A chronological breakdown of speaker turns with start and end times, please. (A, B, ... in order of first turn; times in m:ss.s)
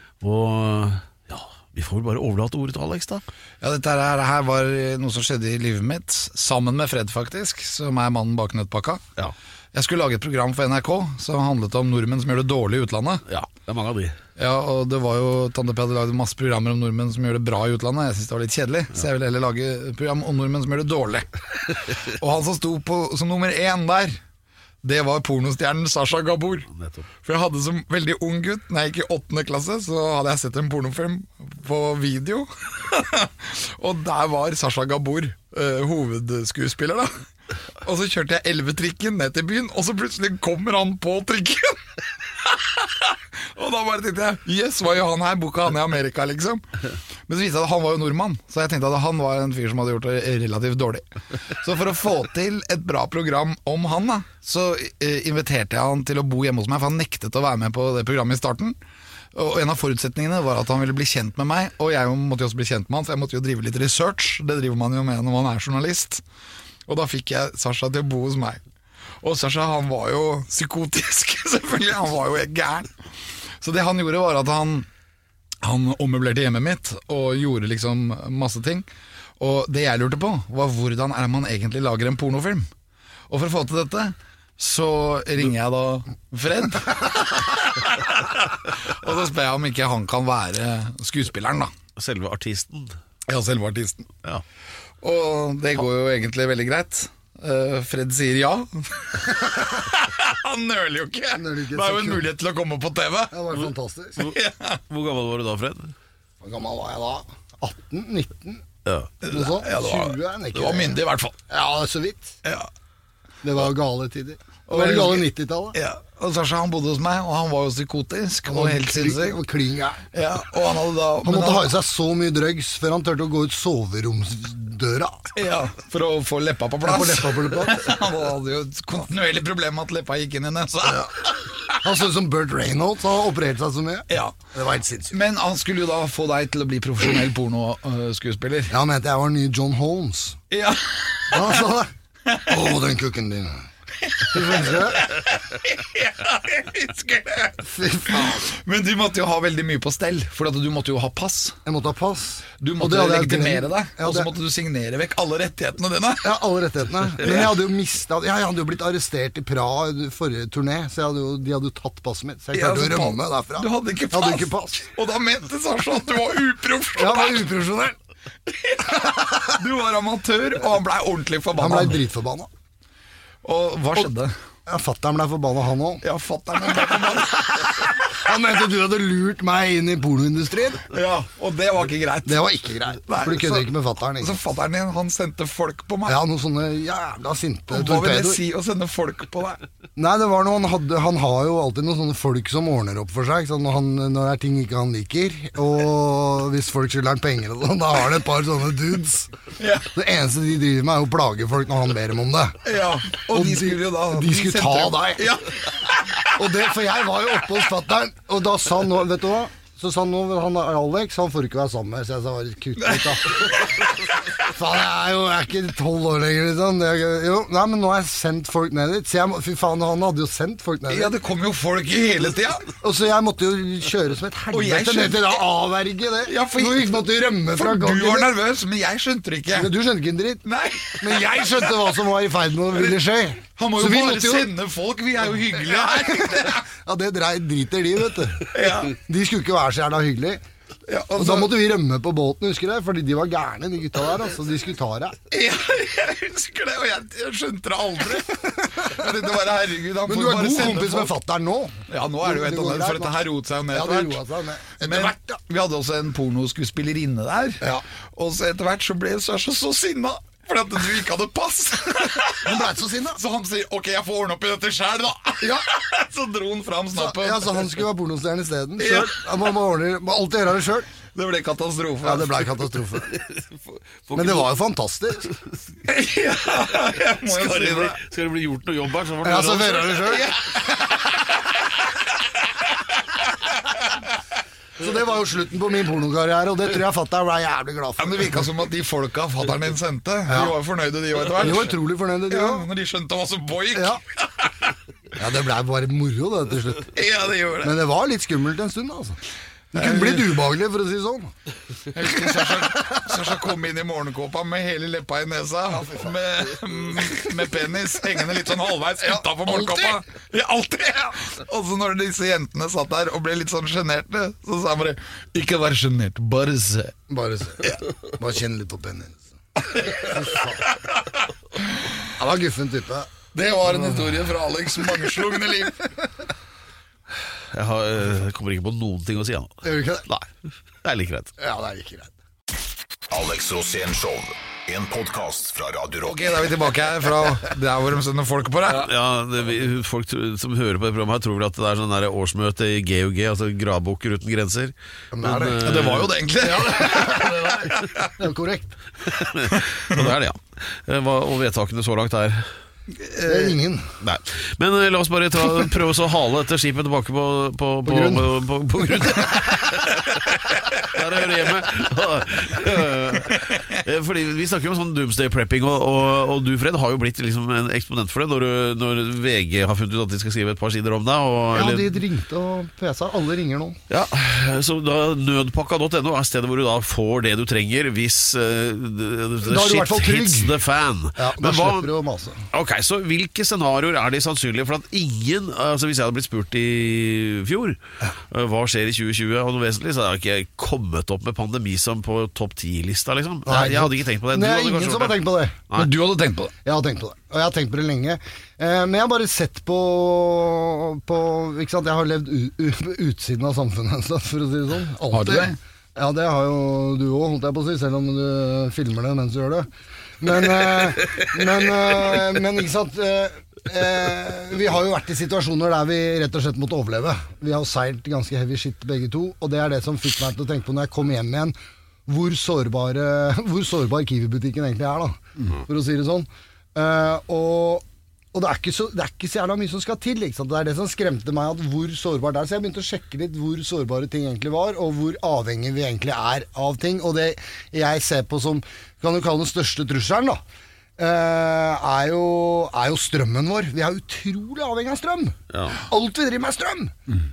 0:00.2-0:03.2 A
0:03.6-0:09.0 B
0:09.7-0:13.2 B
0:13.3-0:14.2 A
0:14.4-0:24.2 B
0:24.8-0:26.7 B
0:26.7-0:27.0 A
0:27.2-0:37.1 B
0:37.8-0:41.9 B
0:42.4-0:58.8 B
0:59.3-1:06.2 B
1:06.9-1:08.6 B
1:09.2-1:12.9 B
1:13.6-1:14.9 B
1:15.6-1:18.9 B
1:19.4-1:22.7 B
1:23.3-1:31.7 B
1:32.0-1:33.0 A
1:33.3-1:34.1 B
1:35.0-1:43.4 B
1:41.3-1:42.2 C
1:43.3-1:44.2 C
1:44.2-1:44.8 B
1:44.9-1:45.9 A
1:46.4-1:48.6 C
1:48.8-1:49.1 A
1:49.2-1:51.4 B
1:49.3-1:52.4 C
1:52.4-1:52.7 B
1:53.4-1:55.8 C
1:54.7-1:59.4 B
1:58.5-2:00.0 C
2:00.1-2:01.7 B
2:01.2-2:05.2 C
2:05.3-2:11.7 B
2:06.8-2:07.9 C
2:11.8-2:15.2 C
2:14.1-2:14.3 B
2:15.1-2:18.7 B
2:18.7-2:20.4 C
2:20.5-2:21.7 B
2:21.3-2:21.9 C
2:22.3-2:22.5 B
2:22.4-2:23.7 C
2:24.0-2:31.6 B
2:24.2-2:25.1 C
2:27.6-2:28.5 C
2:31.6-2:34.3 C
2:32.6-2:36.3 B
2:36.2-2:44.8 C
2:37.2-2:37.5 B
2:42.5-2:47.5 B
2:47.0-2:48.0 C
2:48.5-2:52.0 B
2:51.6-2:52.5 C
2:53.4-2:54.3 B
2:54.7-2:56.0 C
2:56.0-2:58.1 B
2:57.6-3:00.9 C
3:00.9-3:02.4 B
3:02.2-3:04.4 C
3:03.0-3:06.2 B
3:06.0-3:08.4 C
3:07.7-3:09.6 B
3:10.0-3:19.3 C
3:19.6-3:19.9 B
3:19.9-3:22.6 C
3:22.6-3:26.3 B
3:23.3-3:25.3 C
3:26.3-3:33.6 C
3:32.8-3:33.9 B
3:34.4-3:41.1 C
3:40.9-3:42.7 B
3:42.8-3:48.3 C
3:44.5-3:45.4 B
3:46.2-3:49.7 B
3:49.5-3:50.4 C
3:50.4-3:52.0 B
3:51.0-3:54.5 C
3:53.6-3:56.6 B
3:55.7-4:00.4 C
3:58.5-3:59.0 B
4:00.9-4:01.6 B
4:01.2-4:05.2 C
4:05.3-4:11.1 B
4:10.0-4:15.4 C
4:11.9-4:14.2 B
4:14.8-4:17.6 B
4:18.1-4:27.8 B
4:22.4-4:23.2 C
4:25.4-4:25.7 C
4:26.9-4:30.9 C
4:28.8-4:29.2 B
4:31.1-4:32.7 B
4:32.0-4:33.2 C
4:33.1-4:34.5 A
4:34.1-4:35.3 C
4:35.8-4:38.0 B
4:37.2-4:40.3 A
4:39.2-4:40.3 C
4:40.1-4:41.5 B
4:43.7-4:44.0 B
4:44.8-4:48.4 C
4:48.0-4:54.5 B
4:50.3-4:50.5 C
4:51.4-4:52.7 C
4:53.7-4:54.0 C
4:55.2-4:56.9 C
4:56.9-4:57.8 B
4:57.6-4:59.2 C
4:59.7-5:01.3 C
4:59.7-5:00.4 B
5:01.9-5:16.9 B
5:09.5-5:09.9 C
5:17.1-5:20.7 C
5:19.6-5:21.0 B
5:22.2-5:23.1 C
5:23.3-5:25.9 B
5:27.5-5:30.3 A
5:29.6-5:30.0 C
5:30.8-5:31.3 A
5:31.4-5:32.1 C
5:33.1-5:36.5 D
5:36.0-5:38.9 B
5:38.7-5:46.1 A
5:45.1-5:45.6 C
5:45.6-5:48.1 B
5:46.4-5:48.8 C
5:49.1-5:52.5 A
5:49.5-5:50.1 B
5:53.0-5:53.6 B
5:53.2-5:53.8 C
5:54.0-6:11.9 A
5:57.8-5:58.9 C
6:03.4-6:03.6 B
6:11.5-6:13.8 C
6:13.9-6:21.9 A
6:19.4-6:20.5 C
6:21.2-6:22.4 C
6:22.5-6:27.8 A
6:28.3-6:35.9 A
6:33.4-6:35.6 C
6:35.7-6:36.5 B
6:36.6-6:49.7 C
6:45.1-6:45.6 B
6:50.2-7:01.5 C
7:02.1-7:20.4 C
7:21.0-7:26.9 C
7:25.5-7:25.8 A